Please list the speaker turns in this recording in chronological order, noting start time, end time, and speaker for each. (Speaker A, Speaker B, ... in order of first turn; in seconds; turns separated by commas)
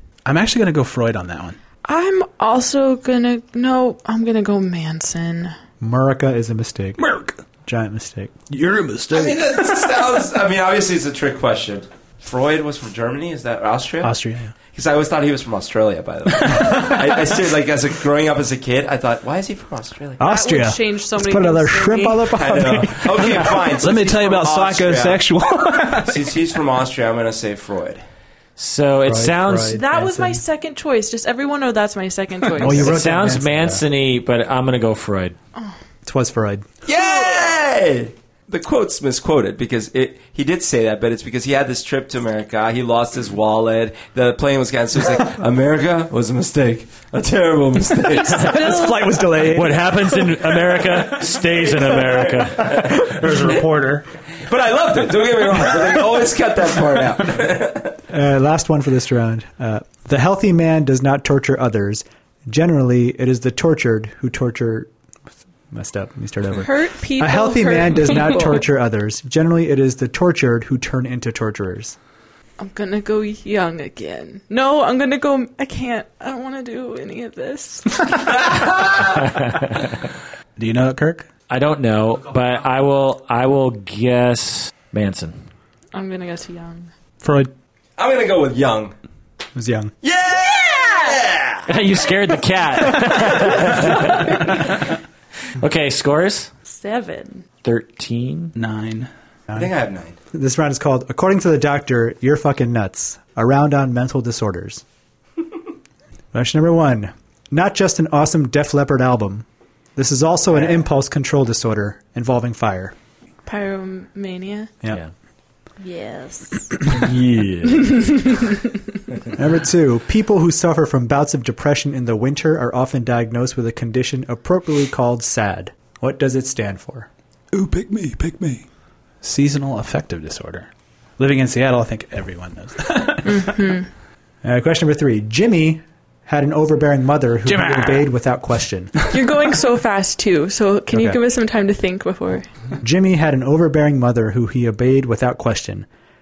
Speaker A: 0.2-1.6, Speaker B: 1.9-5.5, Speaker C: 5.8-8.4, Speaker A: 7.0-7.4, Speaker A: 8.5-10.1, Speaker D: 9.1-14.2, Speaker A: 14.0-14.5, Speaker D: 14.7-20.2, Speaker A: 16.5-16.9, Speaker C: 20.2-23.6, Speaker B: 20.2-22.4, Speaker D: 22.4-25.2, Speaker A: 23.2-26.3, Speaker D: 25.9-28.0, Speaker E: 28.6-29.8, Speaker C: 29.0-30.4, Speaker B: 29.6-33.0, Speaker C: 32.6-33.8, Speaker E: 32.7-35.4, Speaker C: 36.0-36.7, Speaker D: 36.9-48.8, Speaker B: 48.1-49.2, Speaker A: 48.6-49.8, Speaker C: 48.9-49.7, Speaker E: 49.5-53.1, Speaker D: 51.4-53.6, Speaker A: 53.0-54.0, Speaker D: 54.4-58.0, Speaker C: 58.1-64.9, Speaker C: 65.7-72.0, Speaker B: 66.5-68.7, Speaker B: 72.6-78.2, Speaker D: 78.2-79.3, Speaker E: 79.2-79.9, Speaker A: 80.6-81.3, Speaker E: 81.5-85.4, Speaker B: 85.9-86.9, Speaker A: 87.2-87.5, Speaker D: 88.0-88.9, Speaker C: 89.5-89.9, Speaker D: 90.0-91.7, Speaker B: 90.6-91.2, Speaker E: 91.7-94.9, Speaker D: 93.5-93.9, Speaker B: 94.0-94.2, Speaker E: 95.6-96.5, Speaker B: 96.6-97.5, Speaker E: 97.6-98.5, Speaker A: 98.5-99.1, Speaker D: 99.5-100.2, Speaker C: 100.3-104.8, Speaker C: 106.3-113.0, Speaker B: 113.5-114.7, Speaker B: 115.8-116.8, Speaker E: 116.8-118.3, Speaker B: 117.7-118.7, Speaker C: 119.3-127.1, Speaker A: 127.5-128.6, Speaker A: 129.2-133.7, Speaker B: 133.2-133.9, Speaker C: 134.4-139.0, Speaker A: 137.5-138.1, Speaker B: 139.1-142.5, Speaker C: 140.9-141.2, Speaker C: 142.8-145.9